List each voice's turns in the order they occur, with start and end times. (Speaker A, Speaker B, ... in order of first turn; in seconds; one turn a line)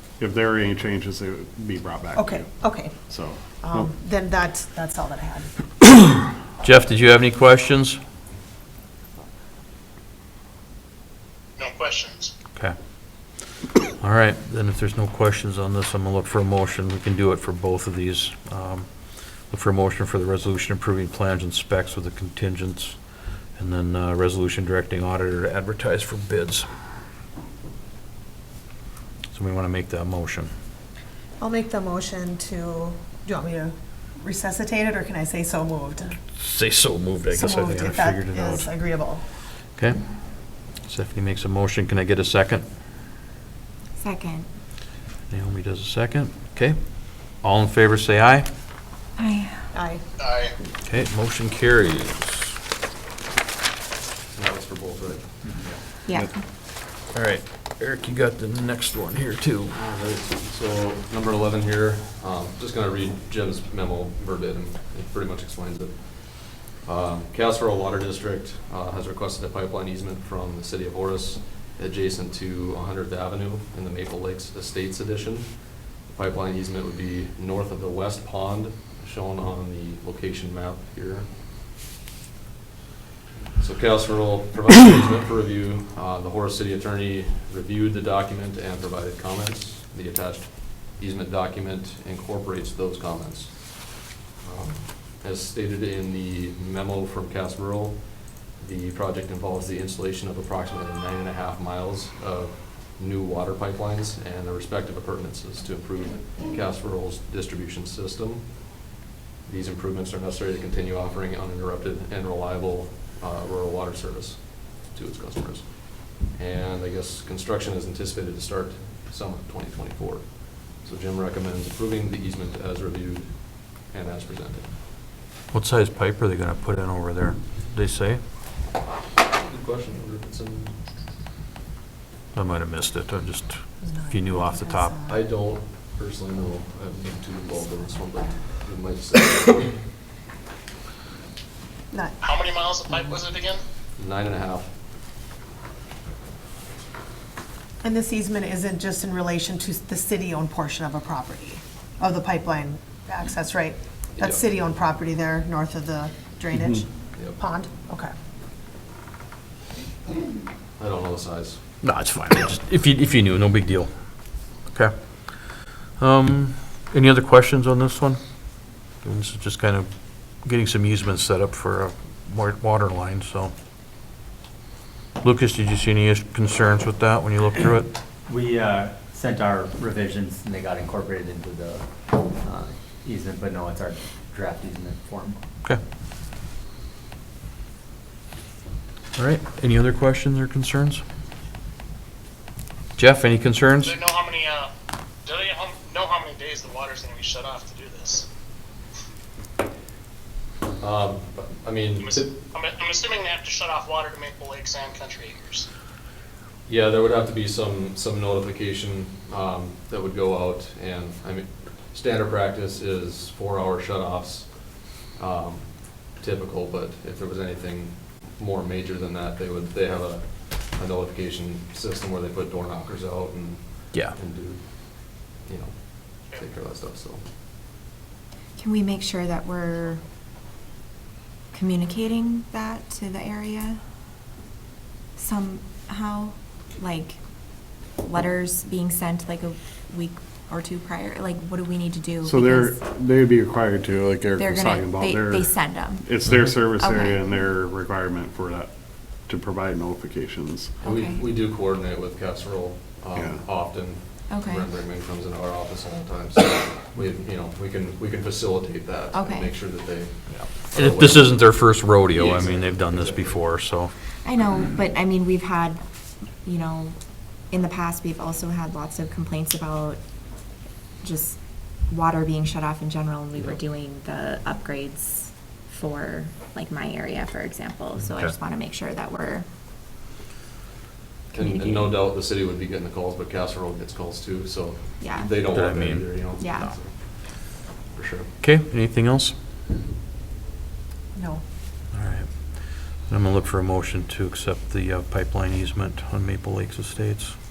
Speaker A: 0.2-3.9
Speaker B: 2.2-3.0
Speaker B: 3.6-5.5
Speaker C: 6.6-8.0
Speaker D: 11.6-12.3
Speaker C: 12.6-13.4
Speaker C: 14.0-26.7
Speaker C: 29.3-30.5
Speaker B: 31.4-36.2
Speaker C: 36.4-38.7
Speaker B: 37.3-39.3
Speaker C: 39.8-42.6
Speaker E: 44.0-44.5
Speaker C: 45.3-48.5
Speaker E: 49.2-49.7
Speaker B: 49.7-50.0
Speaker D: 50.2-50.5
Speaker C: 50.8-52.6
Speaker F: 54.3-55.4
Speaker G: 55.5-55.8
Speaker E: 56.0-56.5
Speaker C: 57.1-59.7
Speaker F: 59.7-81.3
Speaker F: 83.6-108.9
Speaker F: 109.5-124.7
Speaker C: 125.5-128.2
Speaker F: 129.2-130.8
Speaker C: 132.3-135.0
Speaker B: 133.8-135.2
Speaker F: 135.1-139.9
Speaker B: 141.9-142.2
Speaker D: 142.2-143.6
Speaker F: 144.0-144.7
Speaker B: 147.8-158.1
Speaker A: 156.6-156.8
Speaker F: 160.8-161.6
Speaker C: 161.8-173.5
Speaker C: 175.2-177.9
Speaker G: 178.3-181.8
Speaker G: 182.4-185.4
Speaker C: 189.2-191.0
Speaker C: 193.0-193.9
Speaker D: 193.9-194.7
Speaker D: 195.2-198.2
Speaker F: 200.8-202.3
Speaker D: 202.0-205.7
Speaker F: 206.7-227.2
Speaker E: 228.6-230.0
Speaker E: 231.5-233.8
Speaker E: 235.2-237.2
Speaker E: 238.0-242.8
Speaker A: 242.2-248.7
Speaker E: 244.3-247.2
Speaker A: 249.2-250.7
Speaker E: 250.8-251.3
Speaker F: 250.8-263.5
Speaker A: 253.1-253.4
Speaker E: 254.3-254.7
Speaker E: 259.1-259.5
Speaker C: 260.7-263.9
Speaker E: 264.2-265.8
Speaker E: 266.4-267.0
Speaker E: 267.5-270.0
Speaker E: 271.0-271.4
Speaker E: 271.9-279.5
Speaker C: 278.0-278.3
Speaker E: 281.3-282.0
Speaker F: 281.3-287.4
Speaker E: 285.0-285.4
Speaker C: 285.4-286.7
Speaker E: 286.4-286.7
Speaker F: 287.9-288.3
Speaker C: 288.4-289.4
Speaker B: 291.1-291.4
Speaker C: 291.9-297.4